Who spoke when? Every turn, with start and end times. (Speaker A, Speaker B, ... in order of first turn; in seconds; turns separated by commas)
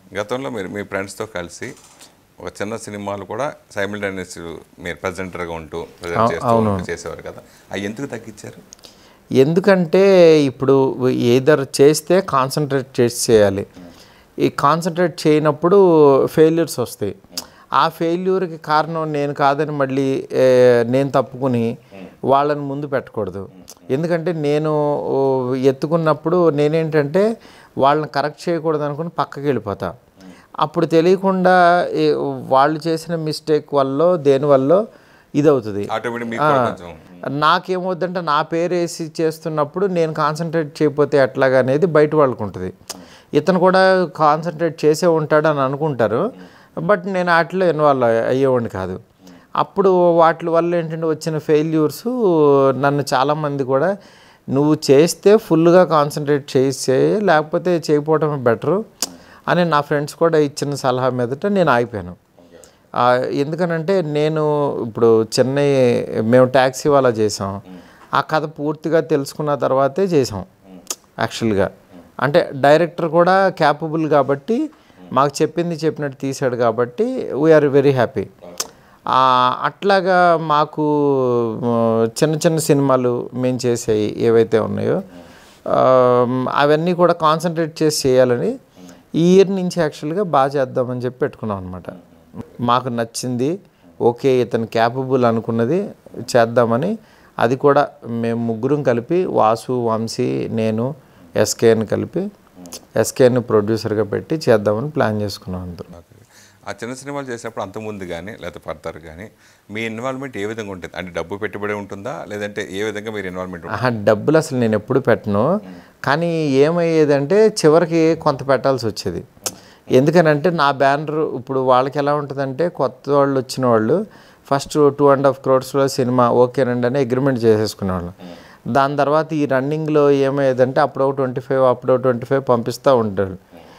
Speaker A: 0.1-1.7, Speaker A: 2.4-8.6, Speaker B: 6.2-6.9, Speaker B: 9.4-13.7, Speaker B: 14.4-15.8, Speaker B: 16.3-17.1, Speaker B: 17.8-21.7, Speaker B: 22.3-27.2, Speaker B: 27.8-29.9, Speaker B: 30.6-34.8, Speaker B: 35.4-36.7, Speaker A: 35.9-37.0, Speaker B: 37.4-42.7, Speaker B: 43.4-46.2, Speaker B: 46.8-49.0, Speaker B: 49.6-53.9, Speaker B: 54.5-58.8, Speaker B: 59.5-62.2, Speaker B: 63.0-65.7, Speaker B: 66.3-67.6, Speaker B: 68.2-70.5, Speaker B: 71.2-71.7, Speaker B: 72.2-74.6, Speaker B: 75.1-78.3, Speaker B: 79.1-85.0, Speaker B: 85.7-88.5, Speaker B: 89.2-92.0, Speaker B: 92.7-93.5, Speaker B: 94.0-102.2, Speaker B: 103.0-105.9, Speaker A: 105.9-114.0, Speaker B: 113.7-115.5, Speaker B: 116.1-119.2, Speaker B: 119.9-128.1, Speaker B: 128.7-133.4